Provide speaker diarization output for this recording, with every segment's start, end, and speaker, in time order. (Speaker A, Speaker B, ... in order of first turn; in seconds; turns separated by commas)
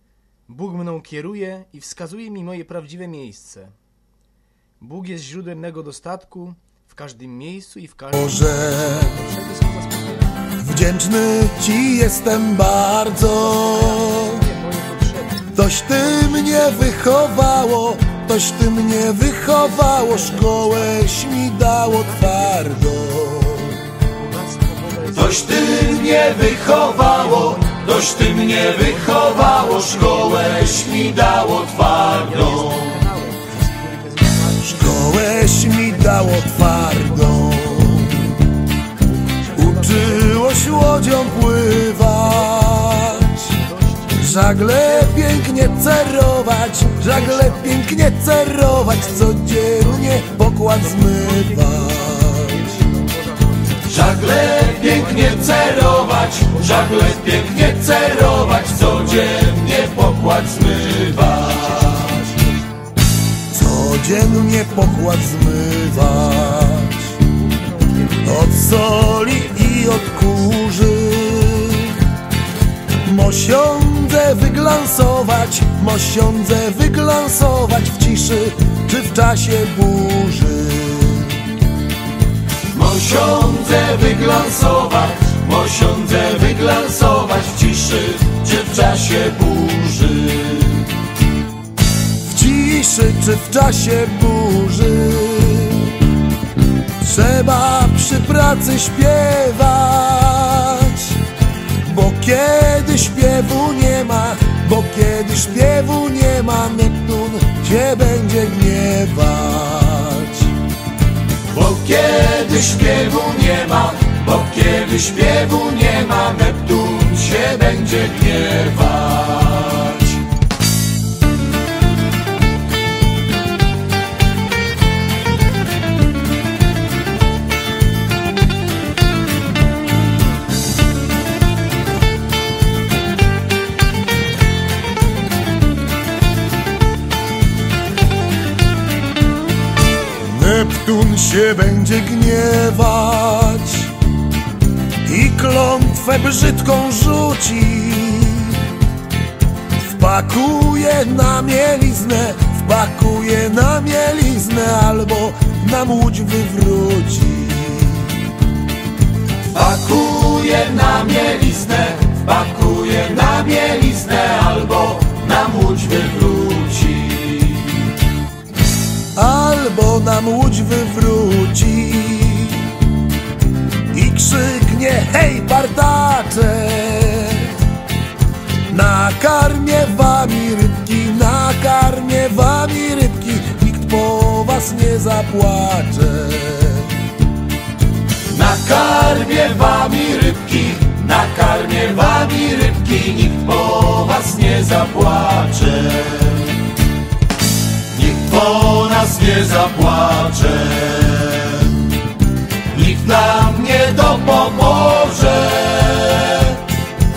Speaker A: 0.5-3.7, Speaker A: 4.8-10.5, Speaker B: 8.1-9.2, Speaker B: 10.6-14.4, Speaker A: 13.4-15.6, Speaker B: 15.5-23.8, Speaker A: 16.1-16.8, Speaker A: 19.5-21.2, Speaker A: 21.9-22.7, Speaker A: 24.1-31.2, Speaker C: 25.1-33.0, Speaker A: 32.0-38.3, Speaker B: 34.6-38.4, Speaker A: 39.0-45.6, Speaker B: 39.5-43.5, Speaker B: 44.1-52.6, Speaker A: 46.9-47.9, Speaker A: 49.0-49.3, Speaker A: 50.9-54.0, Speaker C: 53.8-62.3, Speaker A: 54.8-55.2, Speaker A: 58.5-58.9, Speaker A: 61.4-62.5, Speaker B: 63.5-67.2, Speaker A: 67.3-68.5, Speaker B: 68.2-72.0, Speaker B: 73.0-81.5, Speaker C: 82.7-90.9, Speaker B: 92.2-96.0, Speaker B: 97.0-101.2, Speaker B: 101.8-110.5, Speaker C: 111.5-120.2, Speaker B: 140.1-143.9, Speaker B: 145.1-148.7, Speaker B: 149.8-158.2, Speaker C: 159.5-167.9, Speaker B: 169.1-172.7, Speaker B: 173.9-177.6, Speaker B: 178.7-187.0, Speaker C: 188.3-196.6, Speaker C: 197.9-202.0, Speaker C: 202.7-206.6